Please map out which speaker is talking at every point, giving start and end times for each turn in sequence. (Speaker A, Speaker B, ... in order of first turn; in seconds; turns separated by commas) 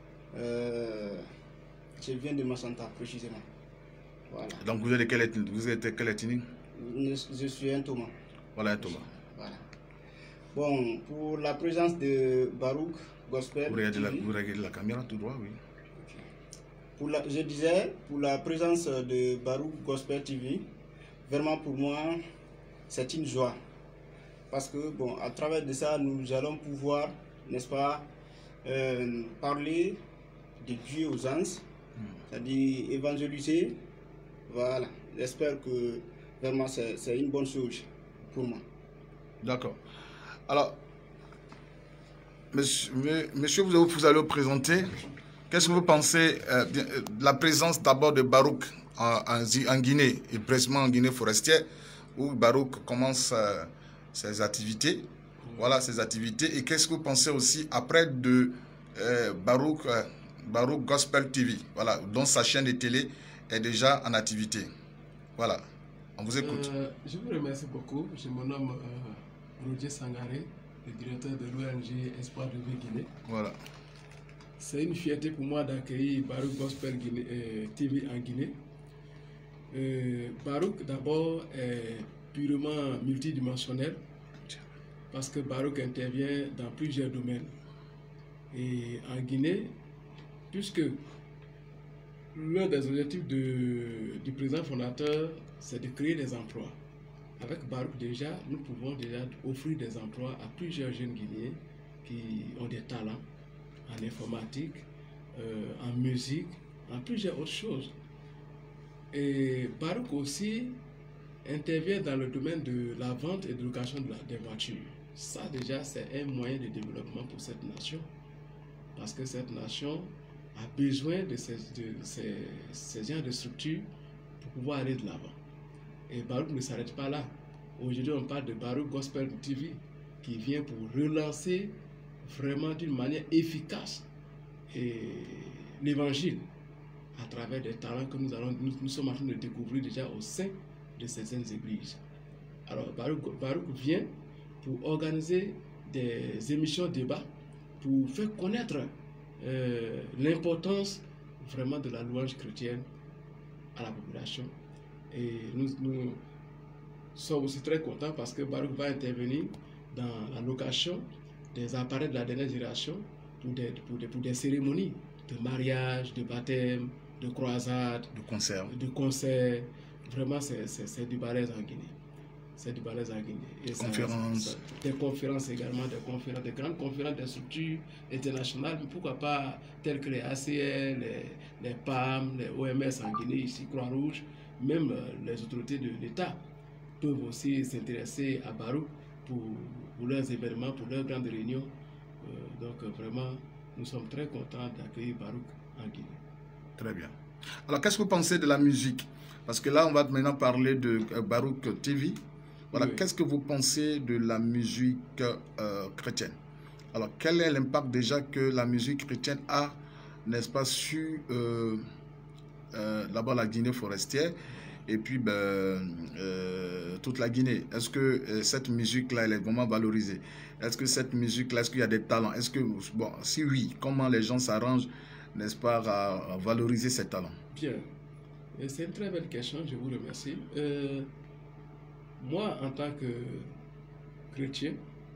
Speaker A: 0.3-1.2, Speaker A: 2.0-3.5, Speaker A: 4.3-4.6, Speaker B: 4.6-6.4, Speaker A: 6.8-8.1, Speaker B: 8.6-9.1, Speaker A: 8.8-9.6, Speaker A: 10.5-14.3, Speaker B: 13.7-15.6, Speaker A: 15.9-16.3, Speaker A: 17.0-20.7, Speaker A: 21.3-22.2, Speaker A: 22.9-23.6, Speaker A: 24.5-28.1, Speaker A: 28.6-30.0, Speaker A: 30.6-31.6, Speaker A: 32.3-33.8, Speaker A: 34.5-38.6, Speaker B: 39.4-39.8, Speaker B: 40.5-40.8, Speaker B: 42.5-45.0, Speaker B: 45.5-55.1, Speaker C: 55.4-55.7, Speaker B: 55.6-64.7, Speaker B: 65.4-65.6, Speaker B: 66.2-66.7, Speaker C: 66.4-73.1, Speaker B: 73.2-73.6, Speaker C: 74.6-78.6, Speaker C: 79.7-84.0, Speaker C: 85.1-87.5, Speaker C: 88.5-89.8, Speaker C: 90.5-91.0, Speaker C: 92.3-96.8, Speaker C: 97.4-103.2, Speaker C: 103.9-107.9, Speaker C: 109.1-110.8, Speaker C: 111.5-118.1, Speaker C: 119.0-123.9, Speaker C: 124.4-125.3, Speaker C: 126.1-134.1, Speaker C: 134.7-136.5, Speaker C: 137.2-142.0, Speaker C: 142.7-147.3, Speaker C: 147.8-152.9, Speaker C: 153.8-154.5, Speaker C: 155.1-156.2, Speaker C: 157.1-168.1, Speaker B: 168.1-168.7, Speaker C: 168.7-172.0, Speaker C: 172.6-186.4, Speaker B: 173.8-174.6, Speaker C: 187.0-196.2, Speaker B: 196.8-197.1, Speaker B: 197.7-202.2, Speaker C: 202.7-203.0, Speaker B: 202.7-206.3, Speaker B: 206.9-211.8, Speaker B: 212.7-227.4, Speaker C: 227.5-227.9, Speaker C: 228.5-231.1, Speaker C: 232.2-233.6, Speaker C: 234.3-234.8